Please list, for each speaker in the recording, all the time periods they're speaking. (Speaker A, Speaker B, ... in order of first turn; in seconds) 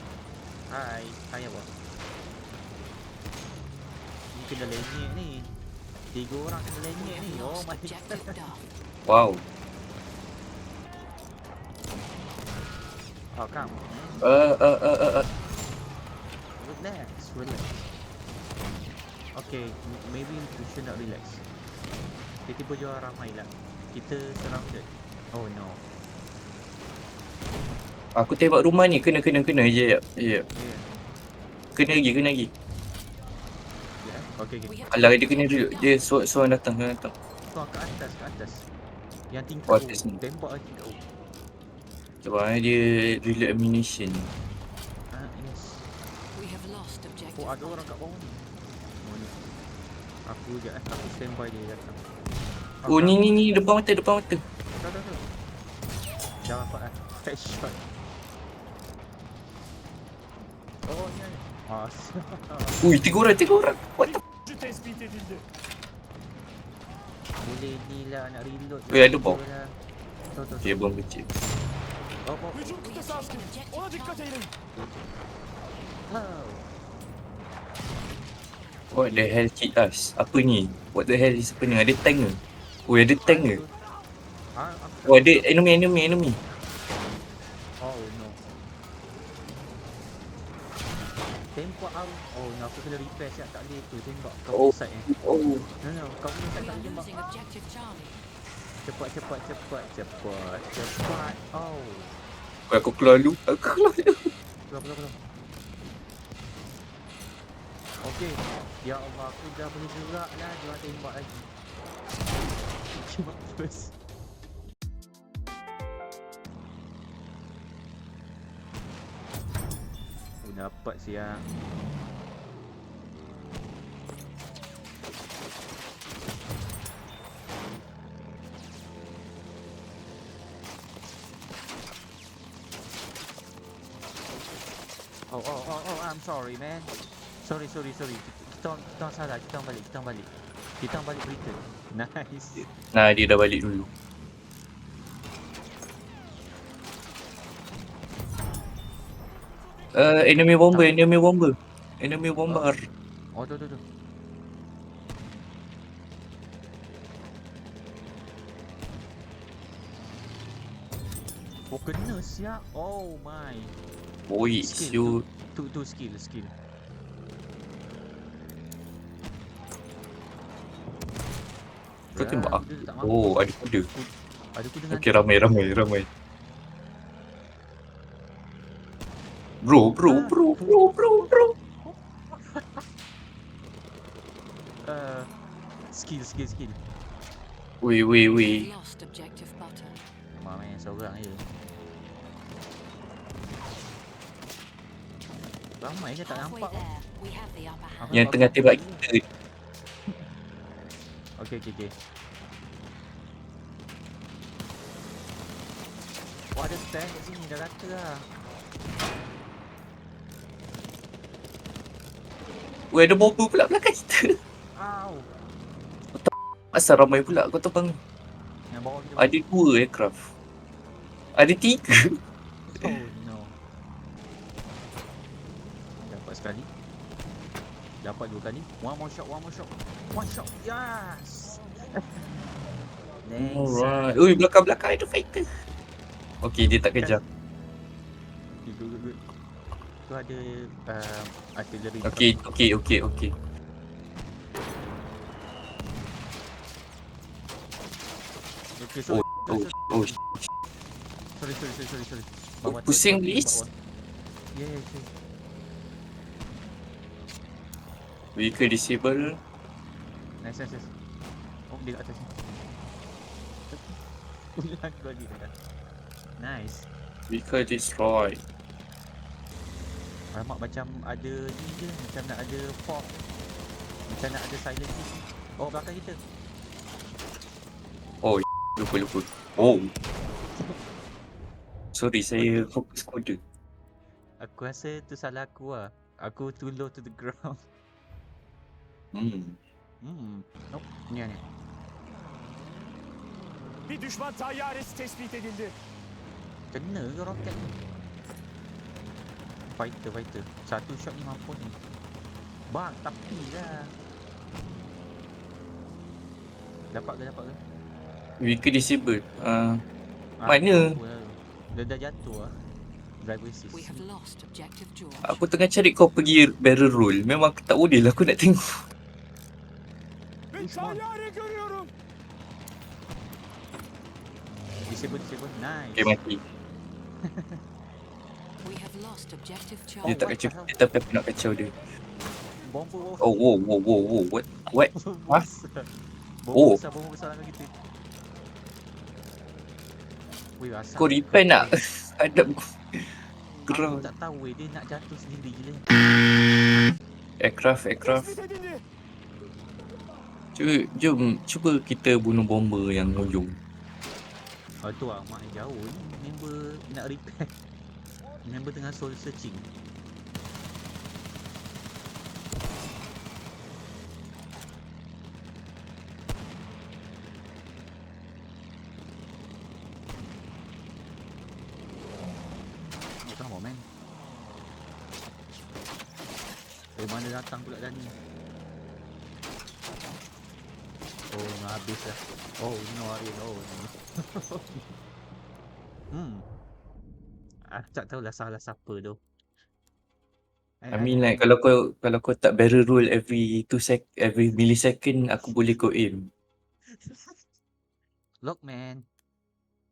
Speaker A: 0.7-1.7, 4.3-5.5, 6.1-8.3, 13.3-14.2, 16.6-17.8, 19.3-21.4, 22.5-25.8, 30.5-30.9, 34.0-34.8, 37.5-38.7, 39.3-41.0, 45.1-45.8, 47.4-48.4, 49.0-49.4, 50.3-52.0, 52.8-53.4, 54.7-55.3, 56.4-57.8, 60.9-62.9, 67.4-69.7, 70.3-70.8, 72.2-72.8, 76.1-76.7, 83.2-83.7, 84.5-85.5, 87.8-88.4, 91.5-95.2, 95.8-97.1, 98.8-102.1, 104.7-105.2, 108.0-111.5, 112.9-113.9, 120.4-121.5, 135.3-136.9, 137.4-140.3, 140.8-142.7, 153.3-153.8, 161.7-163.8, 164.6-166.6, 172.1-173.3, 173.9-175.2, 180.0-180.9, 181.8-182.8, 184.8-185.3, 185.9-186.8, 190.3-191.4, 195.8-196.8, 198.0-199.1, 201.4-201.9, 206.5-208.2, 214.8-215.3, 218.7-219.4, 222.7-223.6, 226.0-226.7, 228.0-232.2, 233.2-234.1, 236.6-237.2, 238.6-239.2, 240.1-242.3, 248.8-250.2, 251.4-253.7, 254.5-255.1, 260.4-260.9, 261.7-262.3, 264.6-265.5, 266.4-266.9, 270.3-273.2, 274.1-276.2, 284.4-287.6, 290.0-291.4, 296.7-297.8, 299.8-301.8, 302.7-303.9, 306.9-307.6, 310.4-312.5, 313.2-314.0, 320.5-321.1, 324.9-326.2, 327.2-327.6, 330.1-330.8, 332.6-333.3, 334.9-335.9, 336.4-337.7, 340.6-341.8, 343.7-345.9, 354.8-357.5, 358.4-359.7, 373.2-373.9, 377.0-378.1, 381.3-384.9, 386.1-386.4, 387.7-389.2, 390.8-391.5, 396.9-397.4, 398.4-399.1
Speaker B: 7.2-8.6, 34.7-36.0, 46.4-47.8, 72.8-74.4, 96.5-98.2, 188.3-190.0, 196.3-198.1, 313.7-315.4, 328.6-330.1
Speaker C: 9.1-9.4, 14.2-15.3, 28.2-30.4, 31.8-32.5, 34.9-37.1, 39.7-40.2, 42.2-44.3, 52.9-54.4, 62.8-64.2, 68.9-69.4, 70.6-71.3, 78.9-83.6, 85.1-86.4, 94.5-95.7, 102.7-104.3, 142.9-143.9, 149.9-152.8, 164.3-165.2, 172.2-173.9, 174.9-176.1, 179.6-181.5, 187.8-188.7, 198.1-199.2, 212.9-214.4, 216.2-218.0, 219.2-220.3, 221.3-222.2, 233.4-235.5, 236.4-237.2, 242.0-243.3, 252.6-253.6, 258.4-259.4, 267.3-268.4, 278.2-279.9, 281.9-283.4, 289.1-289.6, 308.4-309.8, 310.5-310.8, 315.2-318.9, 326.0-326.4, 330.0-331.7, 333.2-335.4, 336.5-336.8, 341.0-344.1, 347.4-348.4, 350.6-353.6, 390.9-396.3
Speaker D: 64.5-65.4, 293.9-295.7, 320.6-321.9